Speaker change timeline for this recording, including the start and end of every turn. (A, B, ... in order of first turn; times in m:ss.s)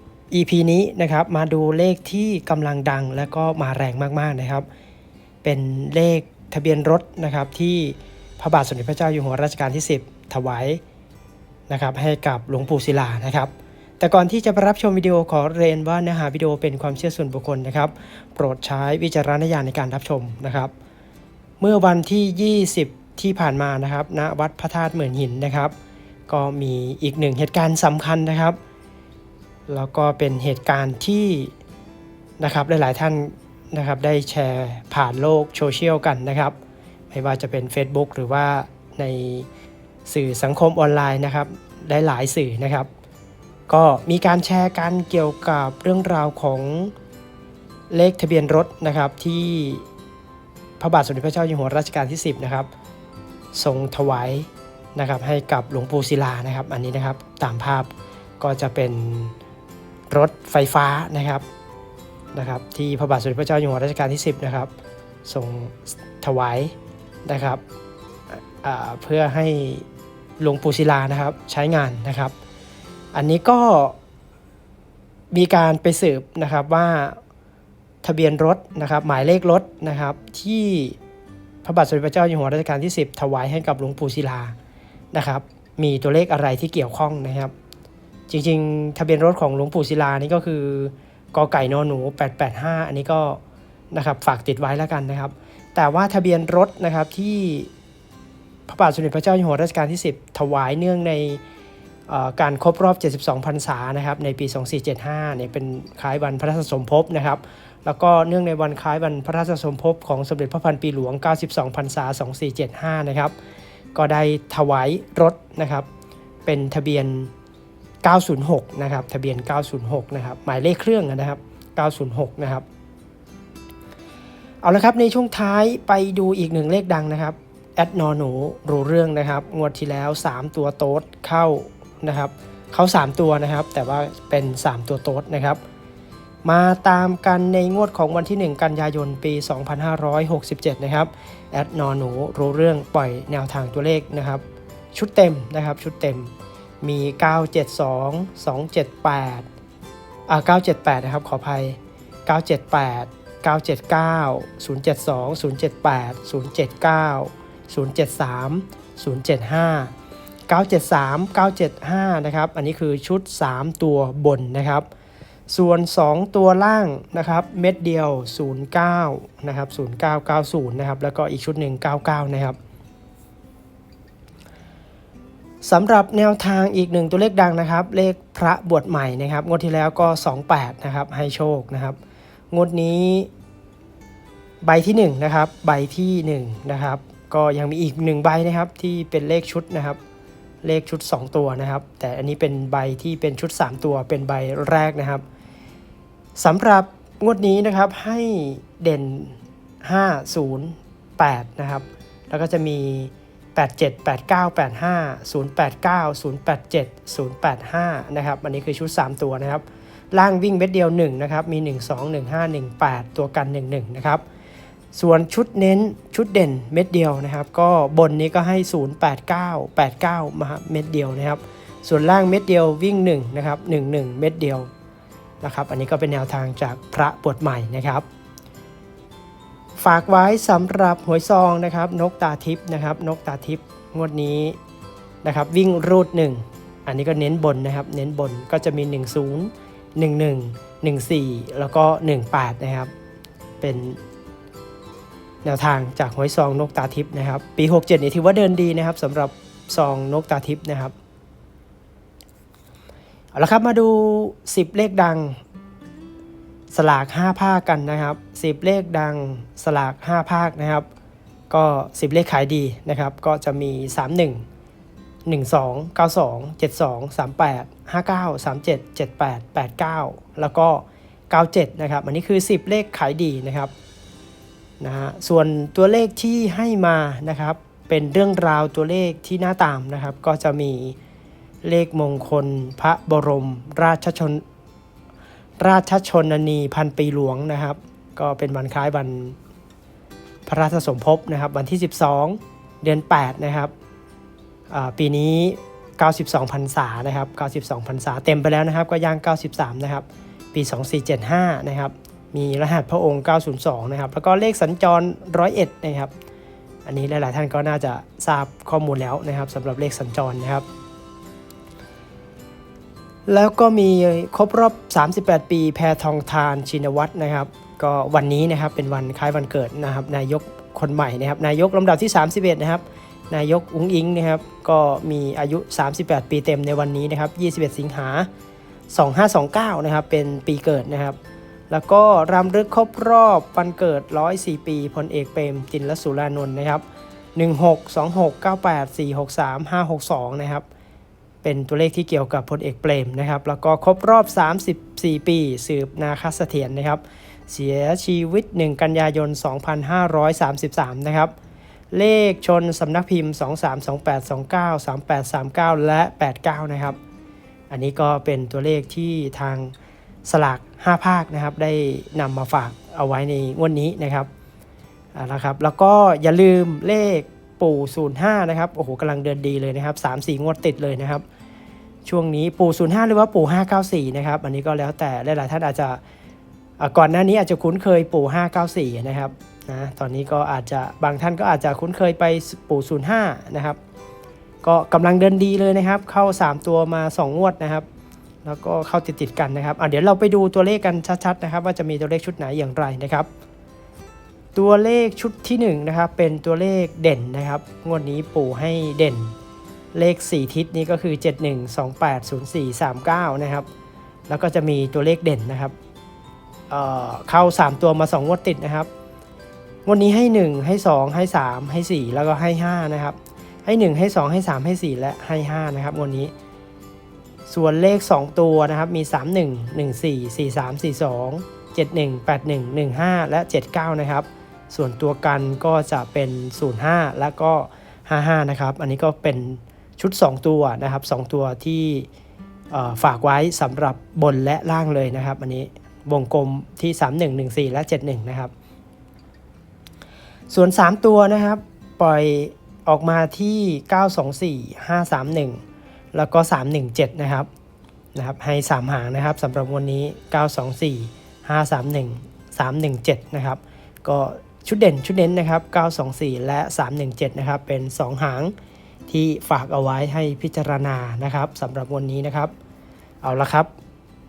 0:00.3-0:04.7 A
0:05.4-0:10.8 A
0:11.7-0:20.7 A
0:21.6-0:25.7 A
0:26.3-0:28.6 A
0:29.7-0:31.5 A
0:32.4-0:36.6 A
0:37.1-0:39.5 A
0:40.1-0:42.9 A
0:43.7-0:46.9 A
0:47.9-0:49.9 A
0:50.8-0:52.7 A
0:53.5-0:59.4 A
1:00.1-1:01.4 A
1:02.3-1:04.7 A
1:05.2-1:06.7 A
1:07.3-1:07.6 A
1:08.3-1:09.9 A
1:10.4-1:12.3 A
1:13.1-1:14.0 A
1:15.3-1:17.2 A
1:18.0-1:21.0 A
1:21.6-1:24.6 A
1:25.1-1:27.5 A
1:28.3-1:33.4 A
1:33.9-1:37.7 A
1:38.7-1:41.4 A
1:42.1-1:53.3 A
1:54.0-1:55.9 A
1:56.5-1:57.3 A
1:58.0-2:02.6 A
2:04.6-2:15.6 A
2:16.4-2:24.4 A
2:24.9-2:29.5 A
2:30.3-2:39.9 A
2:40.5-2:44.9 A
2:45.5-2:52.6 A
2:55.6-3:02.0 A
3:02.5-3:03.3 A
3:04.6-3:10.0 A
3:10.6-3:15.2 A
3:16.4-3:34.2 A
3:34.9-3:44.7 A
3:45.4-3:48.0 A
3:49.8-3:54.6 A
3:55.2-4:02.9 A
4:03.6-4:04.0 A
4:05.4-4:10.9 A
4:13.4-4:15.4 A
4:16.7-4:20.9 A
4:21.5-4:24.4 A
4:25.3-4:33.7 A
4:34.8-4:41.0 A
4:41.6-4:44.4 A
4:45.6-4:49.4 A
4:50.5-4:53.7 A
4:54.7-5:06.1 A
5:06.8-5:10.7 A
5:13.3-5:28.3 A
5:28.9-5:31.2 A
5:31.7-5:36.8 A
5:37.4-5:40.7 A
5:41.4-5:51.3 A
5:51.9-5:57.0 A
5:57.7-5:59.7 A
6:00.2-6:04.3 A
6:05.2-6:11.2 A
6:12.0-6:16.0 A
6:16.8-6:23.8 A
6:24.6-6:27.9 A
6:28.4-6:33.3 A
6:34.6-6:39.3 A
6:39.9-6:43.7 A
6:44.3-6:45.7 A
6:46.7-6:48.9 A
6:49.9-6:56.3 A
6:57.5-7:12.1 A
7:12.7-7:18.5 A
7:20.5-7:25.6 A
7:26.1-7:27.5 A
7:28.2-7:38.5 A
7:39.1-7:42.5 A
7:43.2-7:43.7 A